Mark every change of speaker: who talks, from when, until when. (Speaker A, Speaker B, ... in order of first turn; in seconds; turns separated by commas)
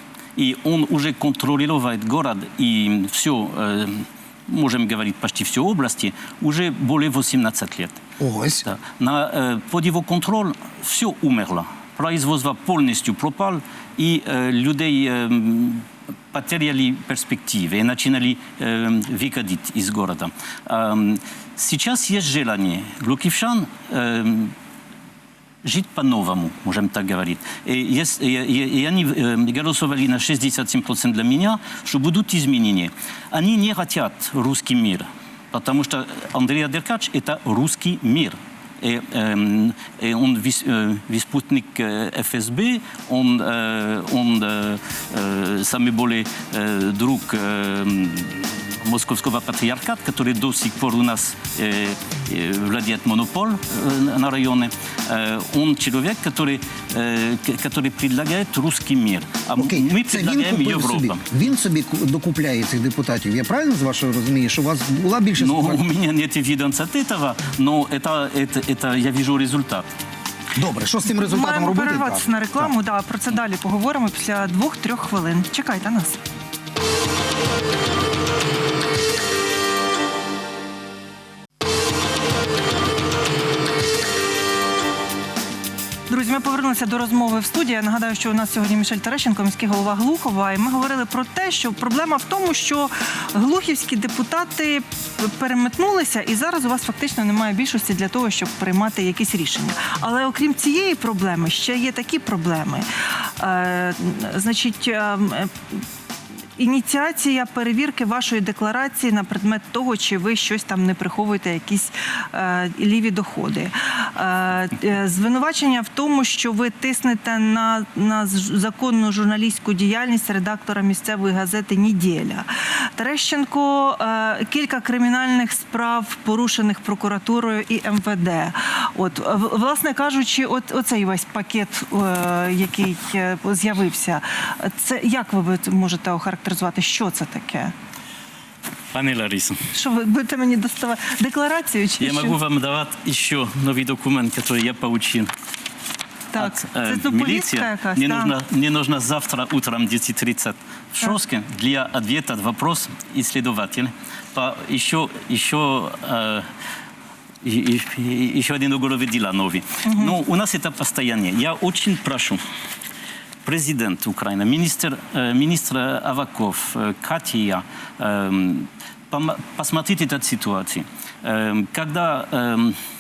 Speaker A: 0.4-8.0, Speaker B: 8.2-8.7, Speaker A: 8.7-24.5, Speaker A: 25.6-61.2, Speaker B: 59.6-65.8, Speaker A: 65.4-69.9, Speaker B: 70.5-72.7, Speaker C: 71.2-76.2, Speaker C: 86.1-102.9, Speaker C: 103.4-105.8, Speaker C: 106.6-137.7, Speaker A: 138.9-139.6, Speaker C: 139.7-142.3, Speaker A: 142.0-145.3, Speaker C: 146.3-148.3, Speaker A: 146.4-156.5, Speaker A: 157.4-162.4, Speaker C: 159.9-160.1, Speaker A: 163.4-172.8